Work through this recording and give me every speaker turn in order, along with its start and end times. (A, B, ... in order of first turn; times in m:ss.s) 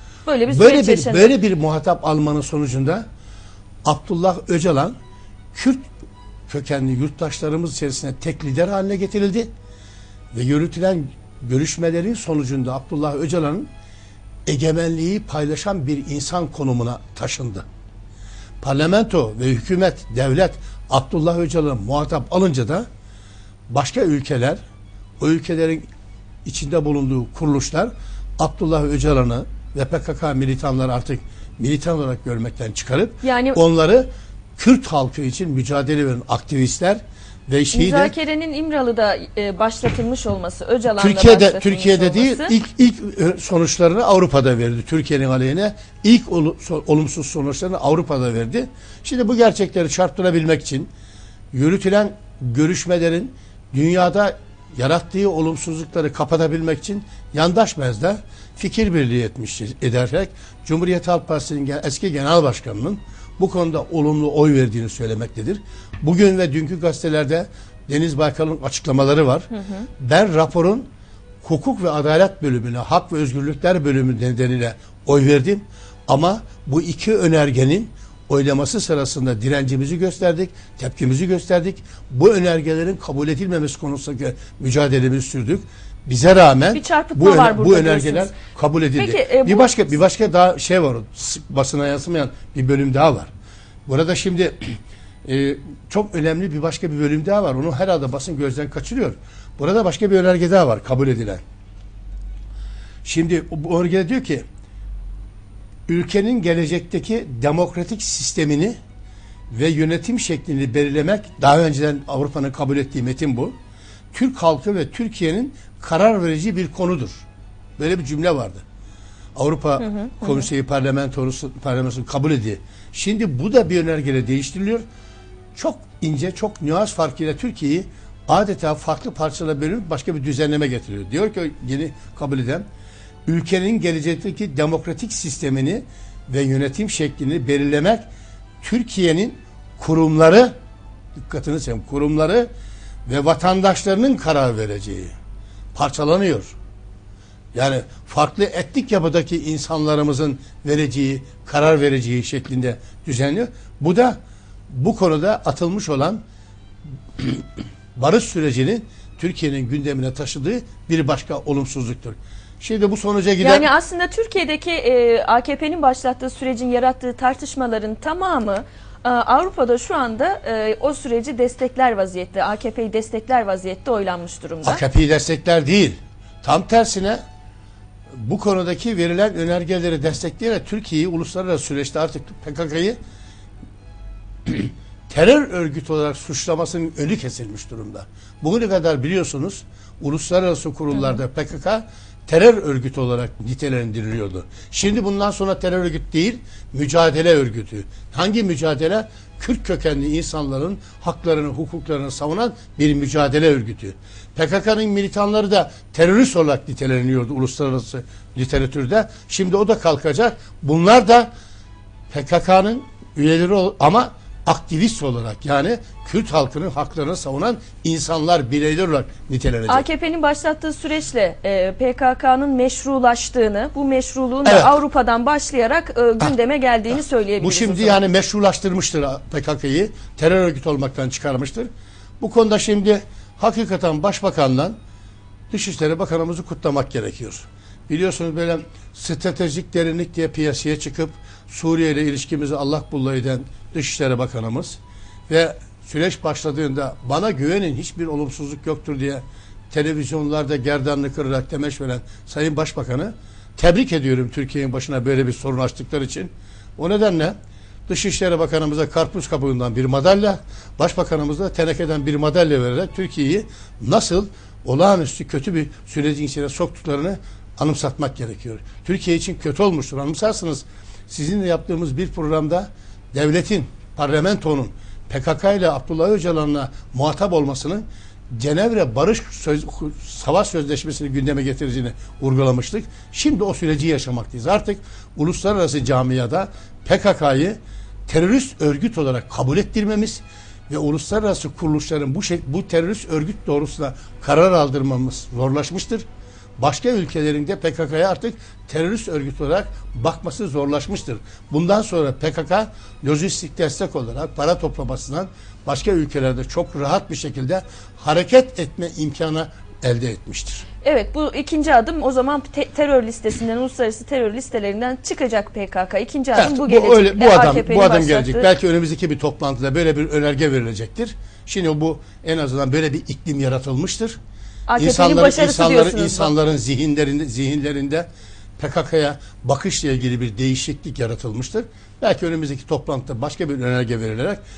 0:00.3-0:01.4 A
0:00.5-0:03.0 B
0:03.8-0:05.0 B
0:05.5-0:05.8 B
0:06.5-0:09.5 B
0:10.3-0:13.7 B
0:14.5-0:17.7 B
0:18.6-0:22.9 B
0:23.7-0:24.6 B
0:25.2-0:25.9 B
0:26.4-0:38.1 B
0:33.2-0:33.6 A
0:37.7-0:42.6 A
0:41.0-0:50.9 B
0:51.5-1:10.9 B
1:11.4-1:33.3 B
1:26.7-1:28.3 A
1:29.0-1:29.7 A
1:33.9-1:41.4 B
1:43.0-1:44.4 B
1:45.9-1:48.8 B
1:49.5-1:53.5 B
1:54.1-1:57.2 B
1:57.8-1:58.6 B
1:59.4-2:04.8 B
1:59.8-2:00.5 A
2:05.6-2:12.6 B
2:13.3-2:18.0 B
2:18.6-2:20.5 B
2:21.2-2:22.5 B
2:23.1-2:25.1 B
2:25.8-2:26.6 B
2:27.5-2:34.2 B
2:34.7-2:36.2 B
2:37.2-2:37.4 B
2:38.0-2:43.7 B
2:43.4-2:54.8 A
2:54.6-2:57.2 B
2:58.1-3:03.0 B
3:04.5-3:31.3 B
3:32.1-3:39.9 B
3:39.7-3:48.0 A
3:44.4-3:44.8 B
3:47.4-3:51.7 B
3:52.2-3:54.8 B
3:55.5-4:17.4 B
4:17.9-4:56.0 B
4:56.6-5:10.7 B
5:10.8-5:18.5 A
5:16.4-5:24.2 B
5:24.7-5:26.3 A
5:24.8-5:28.1 B
5:28.6-5:34.4 B